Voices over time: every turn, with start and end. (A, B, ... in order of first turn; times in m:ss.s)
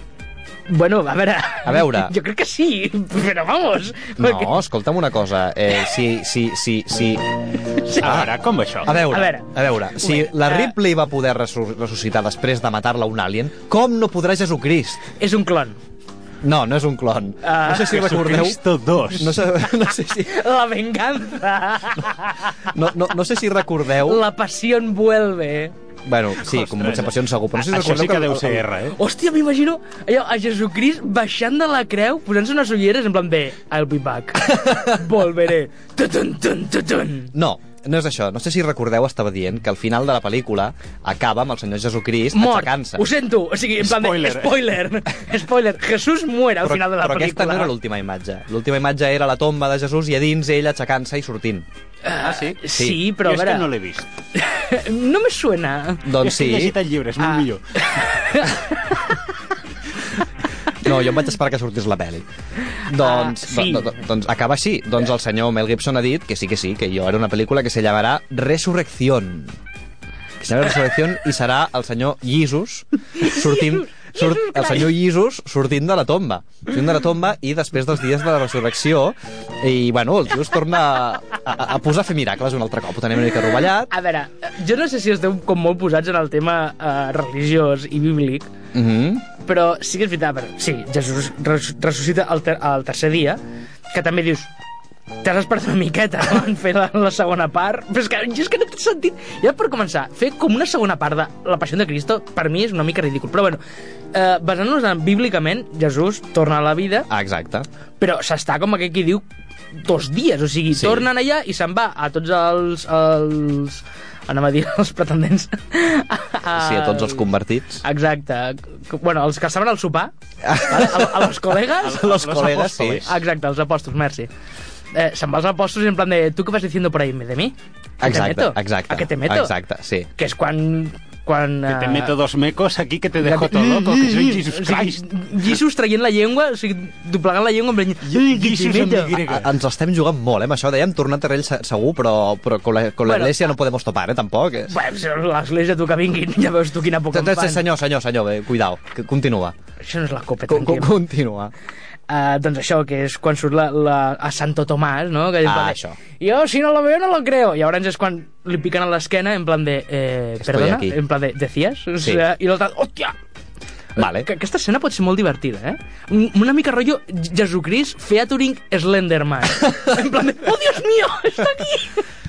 0:00.7-0:04.6 A
0:01.6-0:02.1 B
0:04.2-0:15.1 B
0:08.0-0:08.9 C
0:09.1-0:10.7 A
0:15.2-0:15.8 A
0:16.4-0:18.6 B
0:17.4-0:18.2 A
0:18.0-0:19.4 C
0:19.1-0:20.4 B
0:20.3-0:22.6 A
0:22.7-0:24.2 B
0:24.0-0:25.7 A
0:26.0-0:28.6 B
0:26.4-0:29.0 C
0:28.9-0:37.3 A
0:37.3-0:43.0 B
0:42.3-0:47.7 A
0:43.8-0:44.7 C
0:46.6-0:51.6 B
0:52.0-0:53.7 A
0:52.2-0:52.6 C
0:52.8-0:53.0 B
0:53.2-0:54.1 C
0:54.3-0:56.1 A
0:56.0-0:56.8 B
0:56.2-0:57.8 C
0:57.2-0:59.2 A
1:00.8-1:02.2 B
1:02.8-1:09.5 B
1:03.0-1:03.9 A
1:10.4-1:23.9 B
1:13.2-1:14.9 A
1:23.9-1:28.5 A
1:28.7-1:29.3 B
1:29.4-1:33.4 A
1:33.9-1:34.5 A
1:35.2-1:43.6 A
1:44.1-1:47.1 A
1:47.1-1:47.7 B
1:48.0-1:49.2 A
1:49.8-1:57.2 A
1:50.7-1:51.1 B
1:56.5-1:57.8 B
1:57.8-2:00.1 A
2:00.4-2:03.0 B
2:00.6-2:02.0 A
2:01.8-2:03.2 C
2:03.0-2:04.3 A
2:04.9-2:09.5 A
2:08.0-2:10.1 B
2:10.2-2:12.1 A
2:11.6-2:15.2 C
2:13.3-2:19.2 A
2:18.0-2:19.5 C
2:19.3-2:24.8 B
2:23.0-2:23.3 A
2:24.7-2:27.6 A
2:27.1-2:29.5 B
2:29.8-2:30.9 A
2:30.5-2:31.5 B
2:32.1-2:43.1 A
2:35.4-2:36.0 B
2:40.4-2:41.0 B
2:44.0-2:44.3 B
2:44.0-2:52.0 A